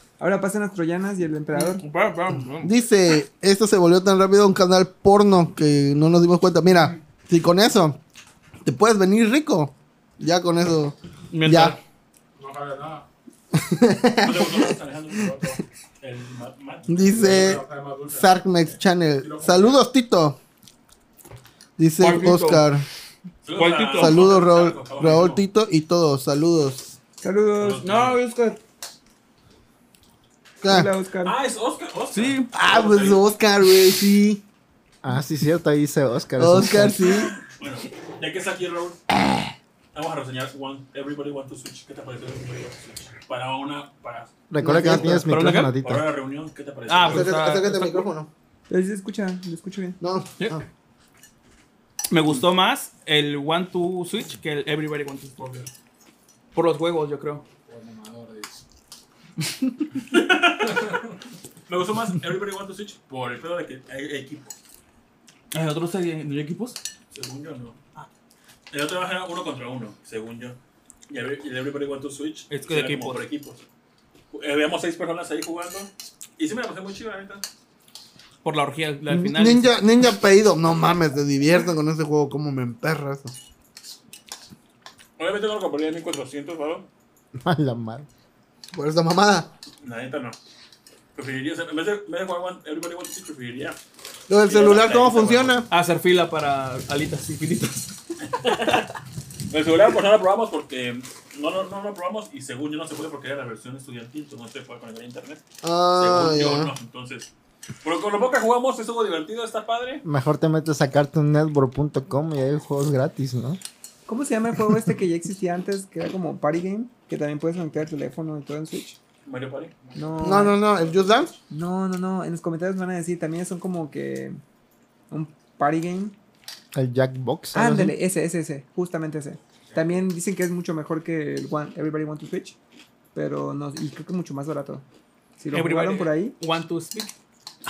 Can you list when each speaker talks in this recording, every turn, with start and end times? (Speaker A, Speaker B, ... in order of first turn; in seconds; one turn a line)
Speaker A: 0.2-1.8
Speaker B: 1.5-2.7
Speaker C: 2.6-8.0
Speaker C: 8.6-11.8
Speaker B: 11.3-11.8
Speaker D: 12.4-13.1
Speaker C: 13.5-14.8
Speaker E: 14.2-17.6
Speaker C: 16.9-20.4
Speaker D: 17.1-18.4
Speaker D: 19.2-19.8
Speaker C: 21.8-22.9
Speaker B: 22.0-22.7
Speaker E: 23.4-25.4
Speaker B: 23.5-24.3
Speaker C: 23.9-27.0
Speaker A: 27.2-27.8
Speaker E: 27.6-28.2
Speaker B: 27.8-28.6
Speaker C: 30.6-30.9
Speaker A: 30.6-31.4
Speaker E: 31.2-33.2
Speaker B: 32.1-32.5
Speaker C: 32.5-34.4
Speaker F: 35.0-37.0
Speaker C: 36.4-37.3
Speaker E: 37.0-39.0
Speaker E: 39.9-47.4
Speaker F: 44.5-46.1
Speaker C: 44.6-45.3
Speaker B: 45.2-45.8
Speaker B: 46.9-48.1
Speaker C: 47.0-48.3
Speaker A: 48.7-50.0
Speaker C: 50.0-50.6
Speaker B: 52.1-55.4
Speaker E: 55.4-55.7
Speaker B: 56.5-57.5
Speaker D: 57.7-58.6
Speaker E: 60.1-61.1
Speaker E: 61.7-64.5
Speaker B: 65.5-66.8
Speaker E: 67.1-67.8
Speaker E: 68.7-73.6
Speaker B: 72.5-73.3
Speaker E: 74.3-77.5
Speaker B: 78.4-79.8
Speaker C: 79.1-83.3
Speaker E: 85.2-86.9
Speaker F: 87.4-88.1
Speaker C: 88.7-89.5
Speaker E: 89.8-90.4
Speaker E: 91.2-93.8
Speaker C: 94.3-95.7
Speaker E: 94.5-95.6
Speaker B: 95.7-98.0
Speaker E: 98.2-98.9
Speaker E: 99.5-105.5
Speaker C: 105.6-106.7
Speaker E: 106.0-107.3
Speaker E: 107.8-110.0
Speaker F: 110.0-113.6
Speaker A: 114.1-119.0
Speaker E: 119.2-119.7
Speaker D: 119.8-121.4
Speaker A: 120.0-120.6
Speaker C: 120.2-121.3
Speaker A: 121.5-124.4
Speaker A: 125.1-126.2
Speaker F: 126.7-128.0
Speaker A: 127.5-132.6
Speaker D: 129.7-130.0
Speaker A: 133.2-134.8
Speaker A: 135.4-136.4
Speaker B: 135.5-137.1